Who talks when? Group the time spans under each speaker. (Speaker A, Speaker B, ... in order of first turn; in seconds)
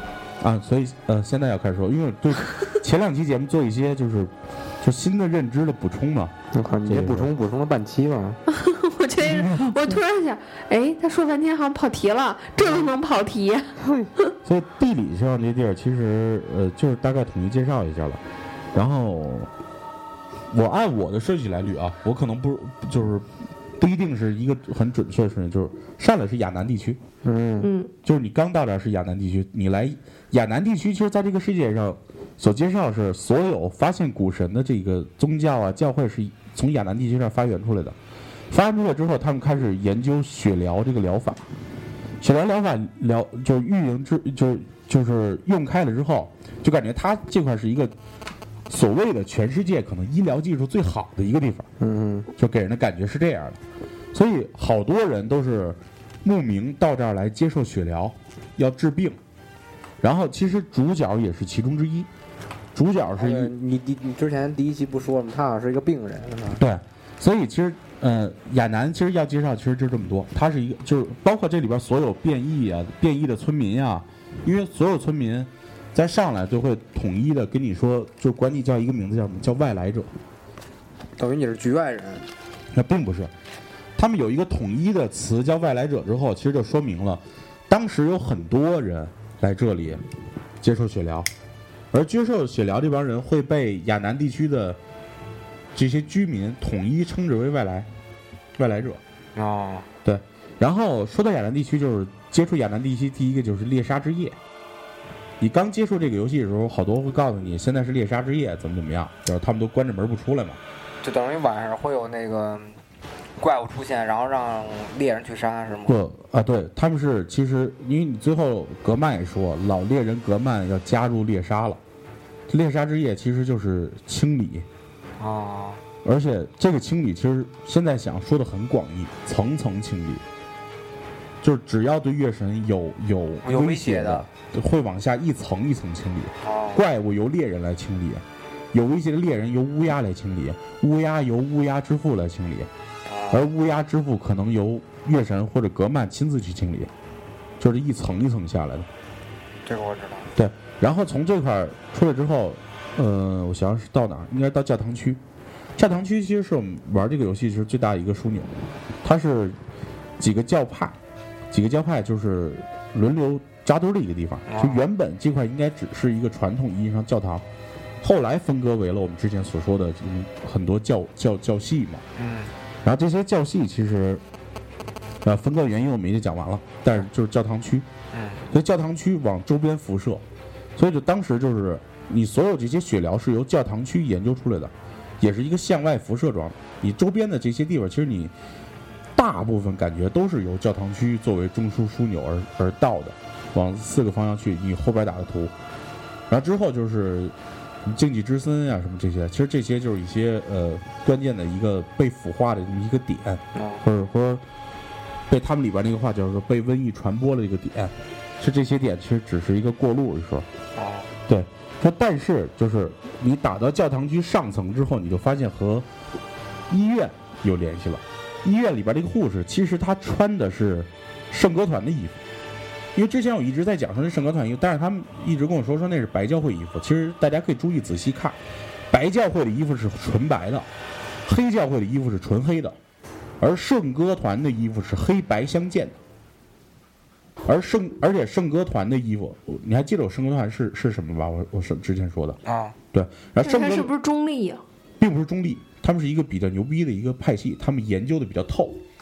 Speaker A: 0.4-6.3, 6.8-7.3, 9.2-10.0, 14.4-18.2, 18.7-19.5, 20.5-27.0, 28.0-38.0, 38.5-41.4, 42.2-47.9, 48.7-51.7, 52.4-53.6, 54.1-59.2, 60.0-62.1, 62.7-63.5, 66.6-80.1, 82.7-83.3, 84.0-90.0, 90.6-91.3, 91.9-94.8, 95.7-97.9, 98.6-99.0, 100.0-104.4, 105.4-110.6, 115.9-121.8, 122.5-124.7, 126.0-130.2, 131.4-142.7, 143.3-146.9, 147.6-148.9, 150.3-155.2, 155.8-158.5, 159.0-159.6, 160.2-161.0, 161.5-167.4, 168.0-172.0, 172.8-174.2, 175.2-177.9, 178.5-180.2, 180.8-188.3, 189.2-195.5, 196.3-197.3, 197.8-204.4, 205.3-210.5, 211.3-215.8, 216.7-222.2, 222.9-228.4, 228.9-230.7, 231.2-232.8, 233.4-236.0, 237.4-242.4, 242.9-243.9, 245.0-248.8
Speaker B: 6.5-8.4, 13.8-14.1, 27.2-27.7, 51.8-52.3, 63.2-66.6, 81.2-82.3, 99.3-99.9, 111.0-112.8, 113.4-116.0, 125.2-125.8, 133.4-134.2, 136.4-136.8, 143.1-143.4, 149.7-150.3, 164.5-164.8, 172.2-172.5, 178.1-178.5, 203.5-203.8, 210.7-211.1, 242.4-242.7
Speaker C: 8.5-14.3, 27.6-27.9, 243.4-244.6